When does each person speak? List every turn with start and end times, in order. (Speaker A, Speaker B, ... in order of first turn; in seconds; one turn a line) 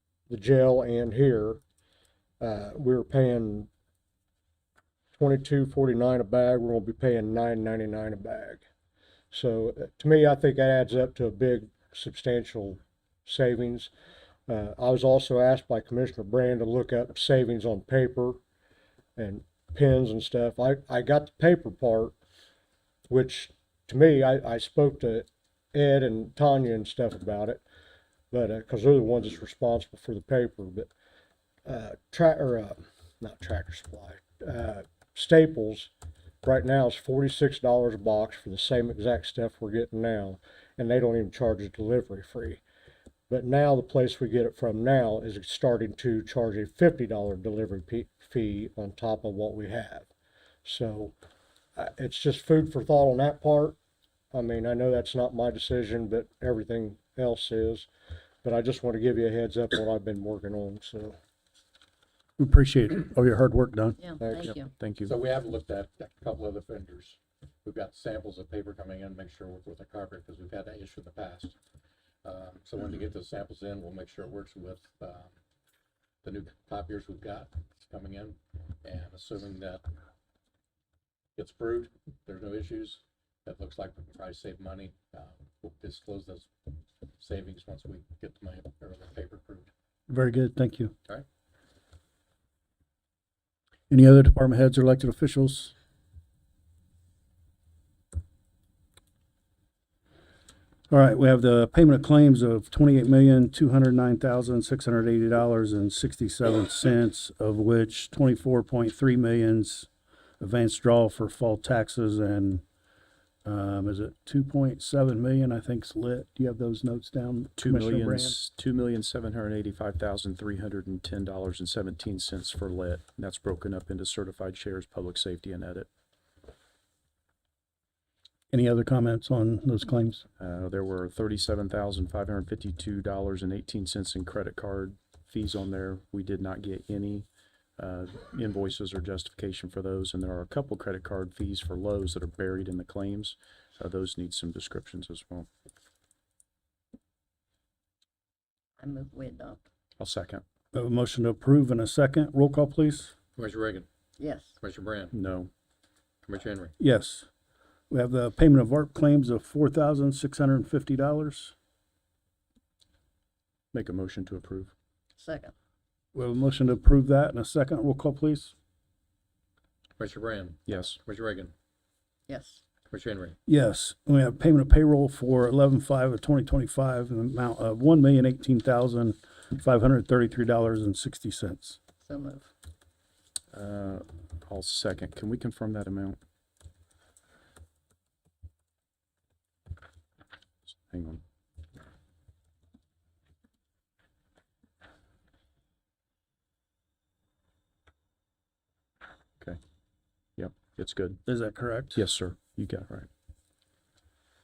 Speaker A: 0.3-1.6
Speaker A: 2.4-3.7
Speaker A: 5.2-8.6
Speaker A: 9.3-13.9
Speaker A: 14.5-18.4
Speaker A: 19.2-22.1
Speaker A: 23.1-27.6
Speaker A: 28.3-30.9
Speaker A: 31.7-35.9
Speaker A: 36.4-42.6
Speaker A: 43.3-50.1
Speaker A: 50.6-51.1
Speaker A: 51.8-53.8
Speaker A: 54.3-57.9
Speaker A: 58.4-61.2
Speaker B: 62.4-64.0
Speaker C: 64.0-64.7
Speaker A: 64.2-64.5
Speaker D: 64.5-65.1
Speaker E: 65.0-71.5
Speaker E: 72.2-75.3
Speaker E: 76.2-79.8
Speaker E: 81.4-86.5
Speaker E: 87.2-89.7
Speaker B: 90.1-90.9
Speaker B: 93.9-95.7
Speaker B: 100.9-112.6
Speaker B: 113.5-118.4
Speaker D: 117.6-125.9
Speaker B: 128.5-130.2
Speaker D: 130.4-145.5
Speaker C: 148.8-149.6
Speaker D: 150.0-150.4
Speaker B: 150.7-153.1
Speaker E: 153.4-153.9
Speaker C: 154.2-154.6
Speaker E: 154.6-155.1
Speaker D: 155.1-155.5
Speaker E: 156.2-156.7
Speaker B: 156.8-157.3
Speaker B: 157.9-161.5
Speaker D: 163.7-164.7
Speaker C: 165.2-165.5
Speaker B: 166.1-168.5
Speaker E: 170.0-171.5
Speaker D: 170.7-171.0
Speaker C: 172.3-172.6
Speaker E: 172.9-173.4
Speaker B: 173.5-181.8
Speaker C: 182.0-182.5
Speaker D: 183.5-186.2
Speaker D: 190.7-191.2
Speaker D: 200.4-201.2
Speaker B: 201.2-202.1
Speaker D: 201.9-203.1